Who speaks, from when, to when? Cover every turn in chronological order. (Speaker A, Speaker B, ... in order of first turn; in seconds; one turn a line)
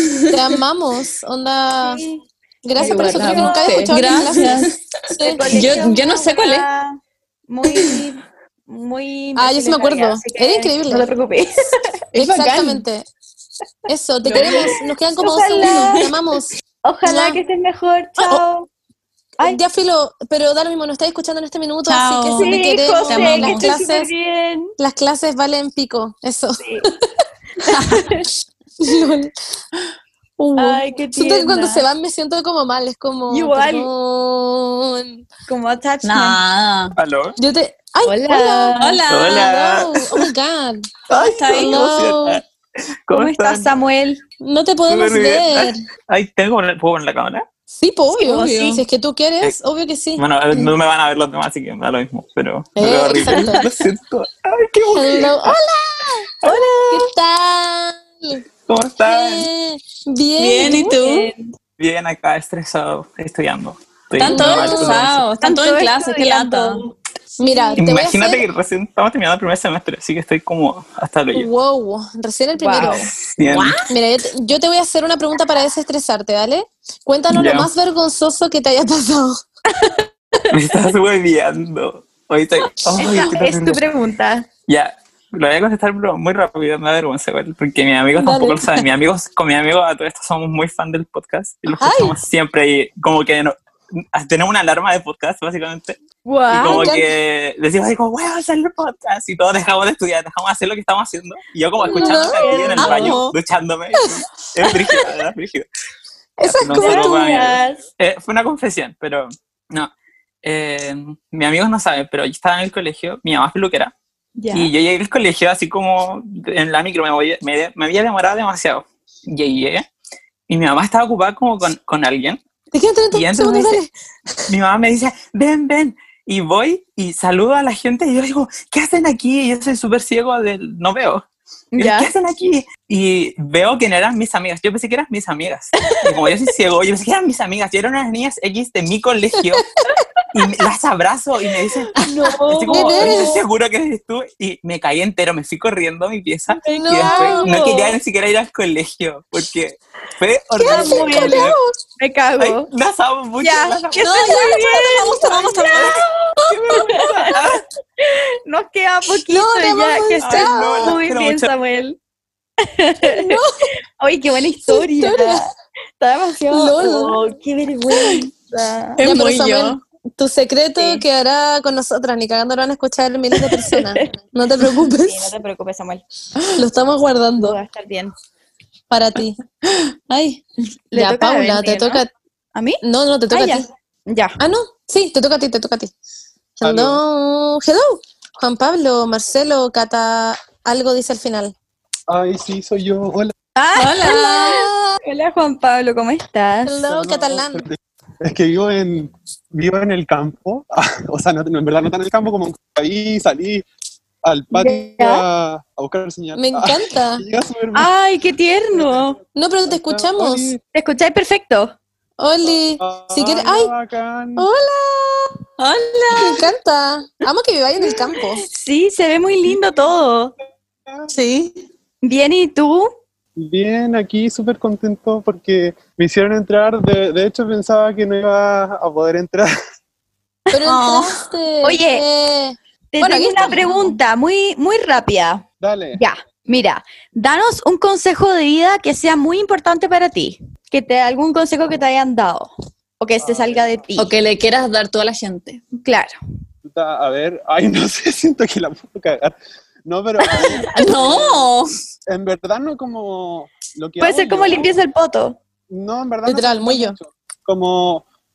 Speaker A: 0.3-2.0
Speaker B: 1.8-2.2
Speaker A: 2.6-5.4
Speaker B: 2.8-3.9
Speaker C: 3.8-4.7
Speaker B: 5.2-11.5
Speaker C: 5.5-6.7
Speaker A: 9.4-11.1
Speaker A: 12.2-13.1
Speaker A: 13.9-16.5
Speaker B: 15.2-15.9
Speaker B: 16.8-18.7
Speaker A: 17.1-17.4
Speaker A: 18.2-18.4
Speaker A: 19.4-24.1
Speaker C: 21.9-22.5
Speaker B: 22.4-24.7
Speaker C: 23.1-23.7
Speaker A: 24.8-26.6
Speaker B: 26.6-26.9
Speaker B: 27.8-28.2
Speaker A: 28.8-29.3
Speaker A: 30.4-35.2
Speaker B: 30.6-31.8
Speaker B: 33.3-33.9
Speaker B: 35.5-36.4
Speaker C: 36.0-36.9
Speaker D: 37.0-37.4
Speaker A: 37.4-42.4
Speaker B: 38.0-39.0
Speaker C: 38.8-39.5
Speaker D: 39.1-39.9
Speaker D: 41.1-42.4
Speaker C: 41.2-41.9
Speaker D: 43.1-43.7
Speaker B: 43.1-44.2
Speaker A: 44.4-45.8
Speaker D: 44.9-47.5
Speaker A: 47.7-50.7
Speaker B: 48.2-48.8
Speaker C: 48.4-48.6
Speaker D: 50.2-54.9
Speaker A: 52.8-53.7
Speaker A: 54.9-58.4
Speaker D: 58.7-59.5
Speaker A: 59.0-61.3
Speaker C: 60.4-61.3
Speaker D: 61.8-65.2
Speaker C: 64.2-66.8
Speaker A: 64.2-65.0
Speaker B: 65.4-66.9
Speaker A: 67.4-68.5
Speaker B: 67.5-67.8
Speaker D: 67.8-71.5
Speaker A: 71.3-79.4
Speaker B: 72.6-73.1
Speaker D: 72.8-73.8
Speaker D: 77.3-77.7
Speaker D: 80.5-83.8
Speaker B: 83.0-84.5
Speaker D: 84.7-93.5
Speaker A: 88.2-88.8
Speaker A: 91.8-92.2
Speaker D: 94.1-96.0
Speaker B: 96.3-97.0
Speaker D: 96.5-105.7
Speaker A: 96.6-97.1
Speaker B: 101.8-103.3
Speaker A: 101.9-103.2
Speaker A: 106.4-107.3
Speaker D: 106.5-109.9
Speaker B: 106.7-107.8
Speaker D: 110.4-113.9
Speaker B: 114.4-114.7
Speaker D: 114.5-119.8
Speaker D: 120.5-122.4
Speaker A: 122.7-123.9
Speaker D: 123.2-123.5
Speaker D: 124.5-131.2
Speaker B: 131.7-132.1
Speaker D: 131.8-139.6
Speaker D: 140.3-141.9
Speaker B: 142.0-143.4
Speaker D: 142.5-151.6
Speaker A: 142.7-143.4
Speaker A: 146.6-147.6
Speaker B: 146.7-148.0
Speaker A: 150.6-151.7
Speaker B: 150.7-152.7
Speaker D: 152.4-156.0
Speaker B: 153.4-156.0
Speaker A: 154.1-155.6
Speaker C: 154.4-155.4
Speaker B: 156.7-157.3
Speaker D: 156.7-157.6
Speaker B: 158.4-162.0
Speaker A: 159.3-161.0
Speaker D: 160.2-161.5
Speaker B: 162.7-163.4
Speaker A: 163.1-163.5
Speaker B: 164.0-169.0
Speaker A: 164.7-165.4
Speaker A: 166.5-167.2
Speaker C: 169.0-169.8
Speaker A: 169.0-175.2
Speaker B: 170.8-171.0
Speaker B: 173.4-174.1
Speaker B: 174.7-176.0
Speaker A: 176.6-177.6
Speaker B: 177.4-178.2
Speaker A: 178.9-179.4
Speaker B: 180.9-182.0
Speaker A: 180.9-182.1
Speaker B: 182.6-184.4
Speaker A: 182.8-183.7
Speaker A: 184.4-185.9
Speaker A: 186.6-191.5
Speaker E: 186.6-187.0
Speaker E: 192.1-193.3
Speaker B: 193.6-196.8
Speaker C: 193.8-194.6
Speaker A: 194.3-195.0
Speaker A: 196.7-197.7
Speaker E: 196.9-203.6
Speaker E: 204.2-207.9
Speaker B: 204.5-205.2
Speaker A: 206.3-207.2
Speaker B: 207.7-209.2
Speaker E: 208.7-210.6
Speaker A: 209.3-210.5
Speaker B: 210.7-211.8
Speaker A: 212.2-213.7
Speaker E: 212.4-214.5
Speaker A: 214.4-215.3
Speaker C: 215.6-215.9
Speaker A: 216.1-218.4
Speaker B: 218.4-220.3
Speaker A: 221.2-221.5
Speaker B: 222.0-222.9
Speaker E: 223.4-229.5
Speaker A: 230.5-233.9
Speaker B: 231.6-232.0
Speaker B: 232.9-244.1
Speaker E: 235.6-236.0
Speaker E: 243.2-243.9
Speaker C: 244.0-245.6
Speaker B: 245.8-246.2
Speaker E: 246.6-251.5
Speaker B: 250.2-250.6
Speaker C: 250.7-251.7
Speaker E: 252.1-254.8
Speaker B: 254.0-255.4
Speaker E: 255.7-258.0
Speaker A: 256.3-257.0